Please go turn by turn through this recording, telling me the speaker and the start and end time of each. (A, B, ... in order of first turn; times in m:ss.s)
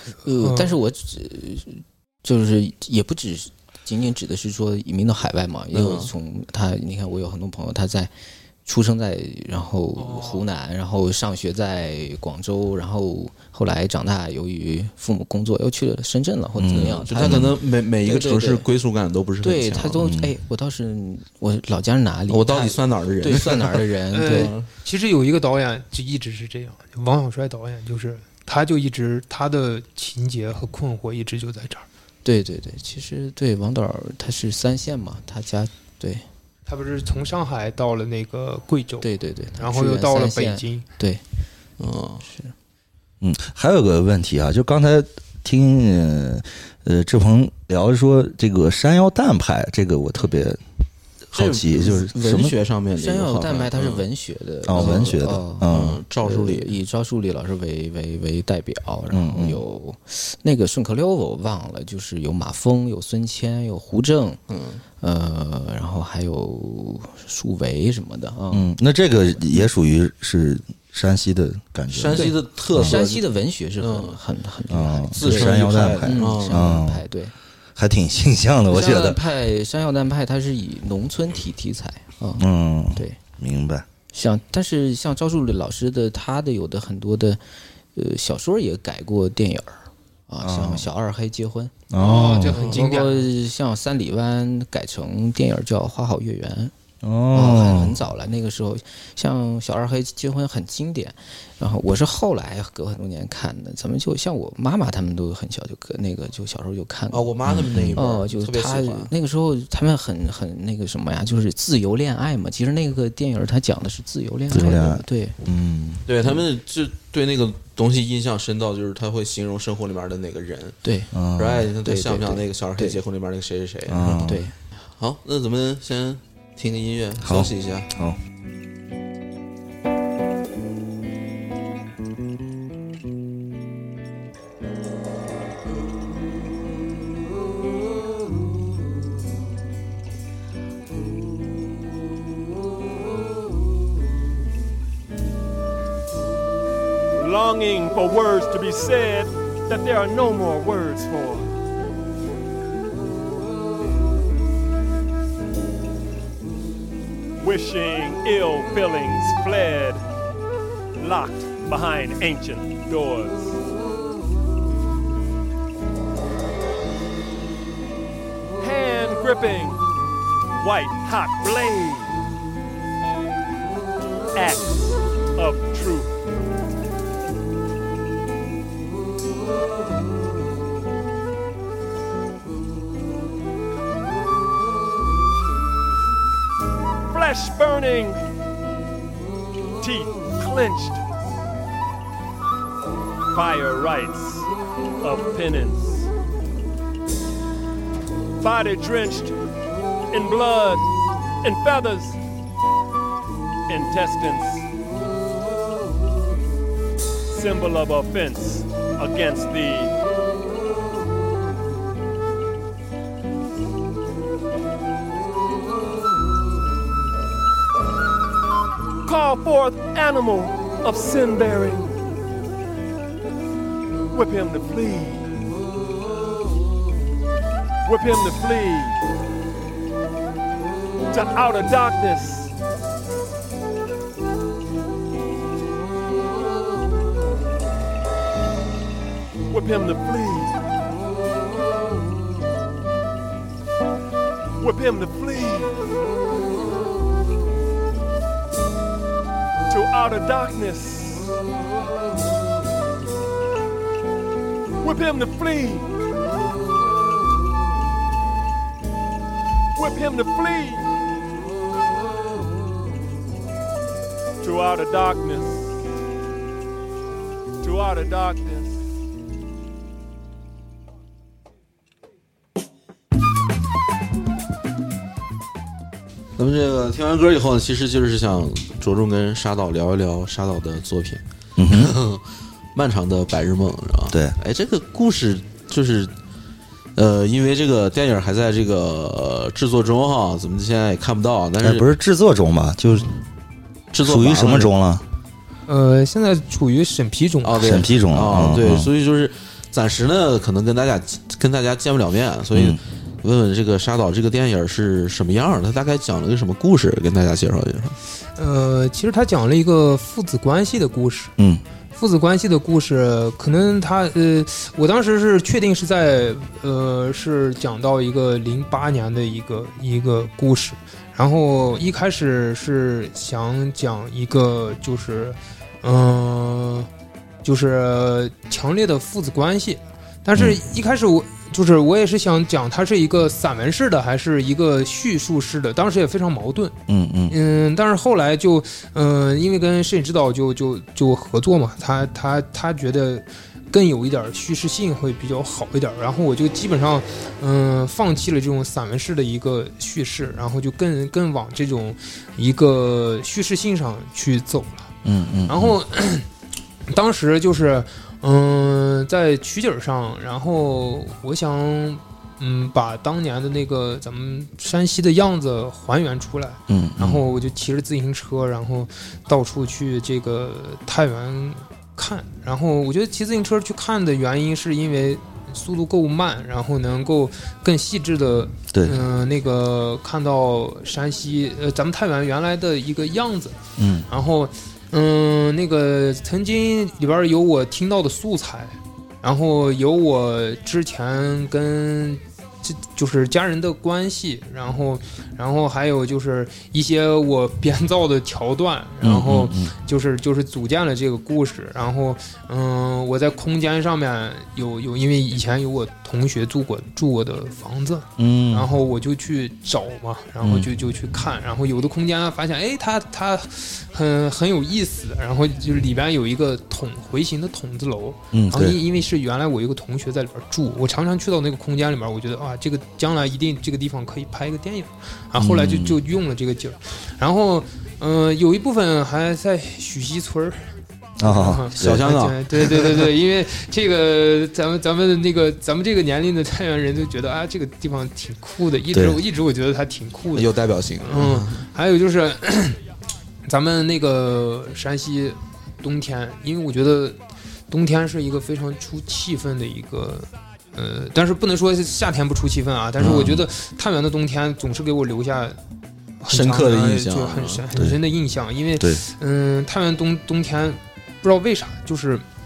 0:00.2-0:08.1 A
0:00.4-0:00.8 B
0:05.7-0:06.1 C
0:08.6-0:18.6 A
0:10.0-0:10.4 B
0:16.6-0:17.6 D
0:16.7-0:20.0 C
0:19.4-0:24.5 A
0:20.0-0:20.3 D
0:22.3-0:24.7 C
0:24.1-0:31.8 B
0:32.2-0:36.2 A
0:36.7-0:39.1 B
0:39.0-0:41.2 A
0:39.6-0:40.8 B
0:41.8-0:42.2 C
0:42.2-0:42.5 A
0:43.2-0:50.6 D
0:51.3-0:52.5 D
0:51.3-0:54.0 C
0:53.0-1:04.4 A
0:54.6-0:56.0 D
0:54.7-0:56.8 C
0:59.1-0:59.6 D
1:04.5-1:04.8 C
1:05.0-1:08.7 A
1:08.5-1:13.0 D
1:11.9-1:13.2 C
1:12.1-1:17.3 A
1:13.8-1:14.2 C
1:14.7-1:17.0 D
1:15.1-1:16.8 C
1:17.8-1:19.2 D
1:18.7-1:23.2 A
1:22.4-1:23.8 D
1:24.1-1:27.4 A
1:27.9-1:31.9 A
1:30.4-1:30.9 D
1:31.9-1:32.7 D
1:32.0-1:33.3 B
1:32.5-1:36.7 A
1:37.0-1:38.0 D
1:37.3-1:47.3 A
1:47.1-1:49.1 C
1:47.4-1:48.0 D
1:47.9-1:55.4 A
1:54.5-1:56.0 D
1:56.1-2:00.8 C
2:00.8-2:01.1 A
2:01.1-2:01.6 D
2:01.4-2:04.2 C
2:01.8-2:03.0 A
2:03.9-2:04.4 D
2:04.1-2:04.5 A
2:04.8-2:07.9 C
2:07.2-2:08.2 D
2:27.1-2:31.6 E
2:37.4-2:40.0 E
2:41.0-2:43.5 E
2:48.6-2:49.8 E
2:50.6-2:52.2 E
2:54.3-2:56.1 E
3:07.1-3:08.2 E
3:09.8-3:11.0 E
3:13.3-3:14.5 E
3:15.0-3:16.1 E
3:18.4-3:19.3 E
3:20.1-3:20.9 E
3:21.4-3:22.2 E
3:23.7-3:24.6 E
3:27.3-3:29.9 E
3:39.0-3:42.1 E
3:44.1-3:45.4 E
3:47.8-3:49.0 E
3:51.1-3:52.5 E
3:59.5-4:00.6 E
4:04.6-4:05.7 E
4:09.7-4:11.4 E
4:14.8-4:15.9 E
4:19.7-4:20.9 E
4:24.4-4:25.6 E
4:27.6-4:28.7 E
4:36.4-4:42.2 C
4:41.6-4:41.9 D
4:42.7-4:46.1 C
4:44.1-4:44.4 D
4:47.0-4:51.8 C
4:51.6-4:53.1 D
4:53.9-4:54.7 C
4:54.0-4:55.0 D
4:55.7-4:57.8 B
4:57.4-5:08.0 C
4:57.6-4:58.9 D
5:02.5-5:02.8 D
5:08.4-5:11.3 B
5:11.9-5:26.9 B
5:27.4-5:36.7 B
5:36.9-5:37.4 D
5:37.3-5:54.9 B
5:55.0-5:55.8 D
5:55.5-5:56.3 B
5:56.9-6:23.6 B
6:06.7-6:07.2 D
6:18.7-6:19.0 D
6:23.8-6:24.1 D
6:24.1-7:10.7 B
6:39.0-6:39.7 D
6:48.2-6:48.7 D
6:50.4-6:50.7 D
6:58.3-6:58.8 D
7:05.4-7:06.0 D
7:11.2-7:12.0 D
7:11.2-7:22.8 B
7:11.8-7:13.0 C
7:18.9-7:19.2 D
7:20.3-7:21.6 C
7:23.4-7:27.2 B
7:27.7-7:35.6 B
7:33.0-7:33.3 C
7:33.0-7:33.5 D
7:36.2-7:42.2 B
7:36.3-7:37.6 C
7:37.7-7:38.0 D
7:38.8-7:39.0 D